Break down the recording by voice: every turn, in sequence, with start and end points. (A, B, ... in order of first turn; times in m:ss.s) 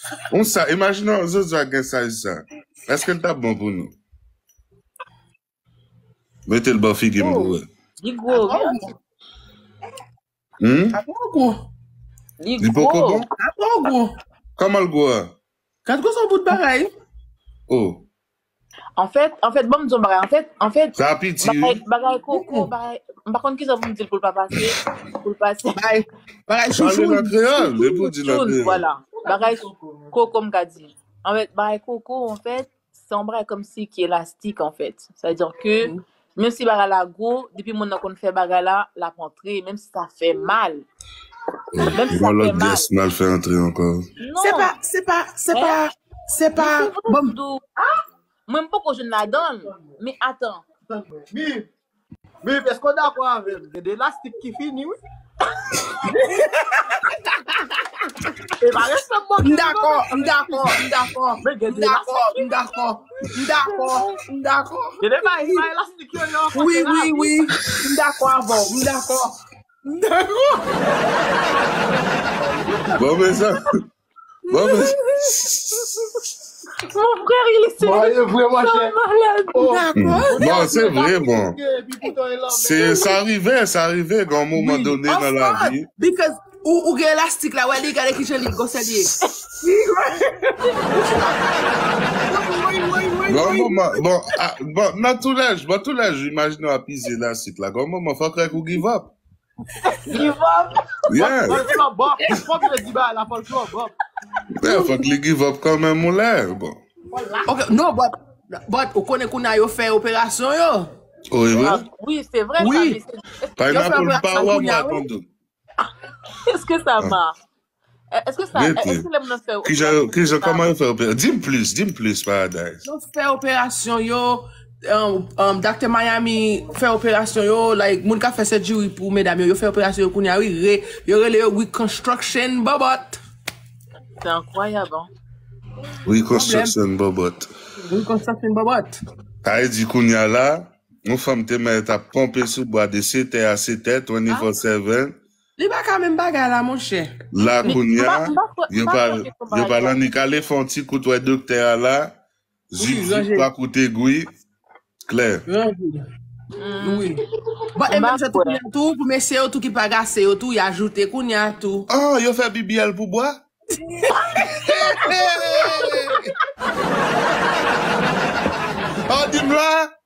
0:00.3-0:03.9 A
0:06.5-0:07.7 A
0:07.2-0:08.8 B
0:08.3-0:08.9 C
0:10.6-0:11.0 A
0:10.9-0:11.6 C
0:12.4-0:13.3 B
0:12.6-0:13.3 A
0:13.4-0:14.2 C
0:14.6-0:15.3 A
0:15.9-0:16.9 C
0:17.7-0:18.0 A
0:19.0-0:25.8 B
0:21.0-0:21.8 A
0:22.3-0:22.7 C
0:25.8-0:27.7 C
0:26.7-0:28.8 A
0:27.8-0:40.9 B
0:29.3-0:30.1 D
0:41.7-0:44.0 A
0:41.9-0:42.9 B
0:44.2-0:44.7 B
0:44.4-0:47.4 C
0:45.5-0:45.8 B
0:46.6-0:47.6 B
0:48.5-0:50.6 B
0:50.9-0:51.7 D
0:52.4-0:55.0 D
0:58.6-1:00.8 D
0:59.4-1:05.7 C
1:01.4-1:02.5 B
1:03.6-1:04.2 B
1:05.0-1:07.4 D
1:06.5-1:09.4 C
1:12.4-1:12.9 D
1:12.7-1:13.1 C
1:13.0-1:13.7 A
1:14.5-1:15.6 A
1:16.8-1:19.6 B
1:17.8-1:19.0 D
1:19.5-1:20.7 C
1:19.6-1:23.1 D
1:20.0-1:21.6 A
1:22.5-1:25.9 A
1:24.6-1:29.1 C
1:29.7-1:30.0 C
1:30.9-1:34.0 C
1:33.3-1:39.1 A
1:40.1-1:41.6 B
1:41.1-1:41.6 A
1:41.3-1:43.9 D
1:44.6-1:46.8 A
1:47.1-1:47.4 B
1:47.4-1:48.2 C
1:48.7-1:50.9 C
1:51.3-1:51.8 A
1:51.6-1:53.2 B
1:52.6-1:53.0 C
1:53.6-1:55.3 A
1:53.7-1:55.0 C
1:53.8-1:54.4 B
1:56.4-1:57.4 B
1:58.1-2:00.6 B
1:58.5-1:59.0 A
1:59.6-2:02.8 A
2:02.8-2:13.2 C
2:14.2-2:15.1 B
2:16.0-2:17.5 A
2:16.3-2:16.8 C
2:17.9-2:19.0 C
2:19.4-2:25.2 A
2:25.6-2:27.1 C
2:27.3-2:32.1 A
2:27.6-2:30.0 B
2:32.7-2:34.3 A
2:32.8-2:33.5 C
2:35.1-2:35.4 A
2:35.5-2:36.0 C
2:36.6-2:37.2 B
2:36.8-2:37.2 C
2:37.8-2:41.9 C
2:37.9-2:38.6 B
2:41.9-2:43.4 A
2:43.8-2:45.2 C
2:44.6-2:46.3 A
2:49.1-2:49.9 A